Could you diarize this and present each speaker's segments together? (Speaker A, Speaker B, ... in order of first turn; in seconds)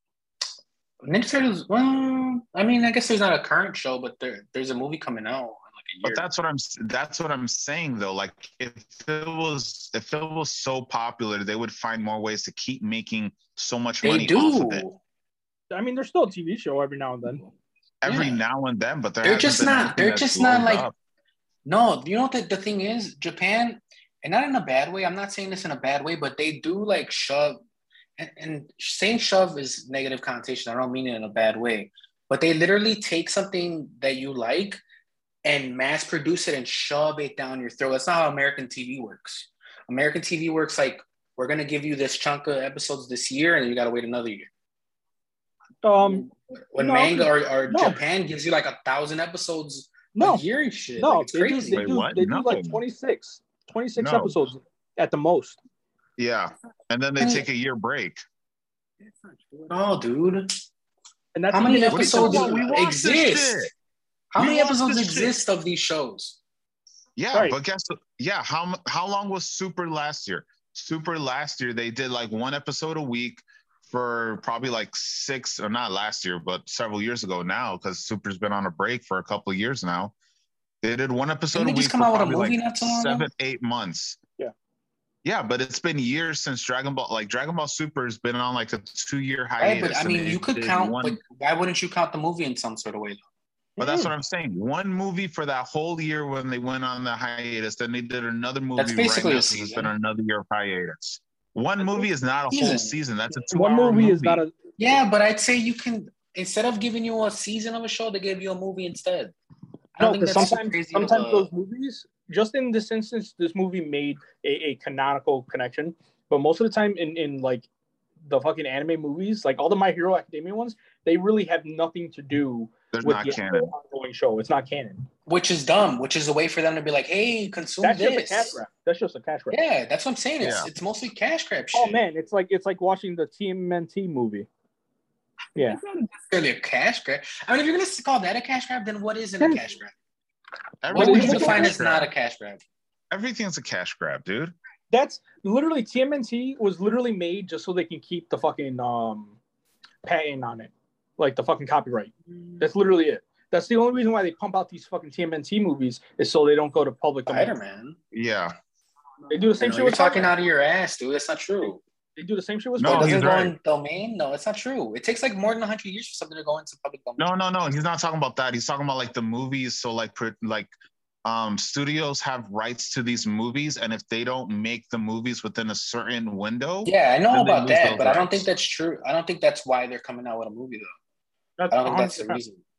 Speaker A: 1.0-6.2, 14.0-15.0, 18.0-18.4, 19.2-20.9, 21.6-27.6, 28.2-34.8, 35.5-44.5, 46.7-51.9, 57.2-57.5, 59.7-60.5, 61.5-63.7, 64.3-66.4, 81.5-83.3, 89.6-93.2, 98.8-99.9, 102.5-103.0, 104.8-109.3, 110.0-111.5, 125.3-128.6, 129.5-132.0, 136.3-139.9, 140.9-142.6, 157.3-158.0, 159.6-161.8, 162.8-167.3, 176.8-180.9, 181.7-182.6
Speaker B: 6.0-14.8, 18.0-20.9, 51.7-52.8, 54.0-54.4, 56.2-58.2, 61.9-63.7, 64.4-65.4, 67.2-80.1, 80.8-84.2, 85.2-91.2, 93.8-104.4, 122.9-123.7, 130.4-130.7, 140.8-142.1, 143.1-144.6, 158.1-158.6, 162.8-163.6, 167.2-170.7, 171.2-178.5
Speaker C: 15.7-17.5, 45.8-46.3, 46.8-48.0, 50.1-50.4, 51.0-55.6, 61.4-62.6, 93.8-94.1, 103.5-104.6, 110.0-117.7, 118.2-125.1, 127.8-129.6, 131.7-134.5, 140.9-141.8, 144.9-149.4, 150.0-157.6, 159.3-160.3, 162.2-163.3, 181.6-182.4
Speaker D: 46.0-46.3, 59.0-59.8, 135.6-136.3, 159.2-160.3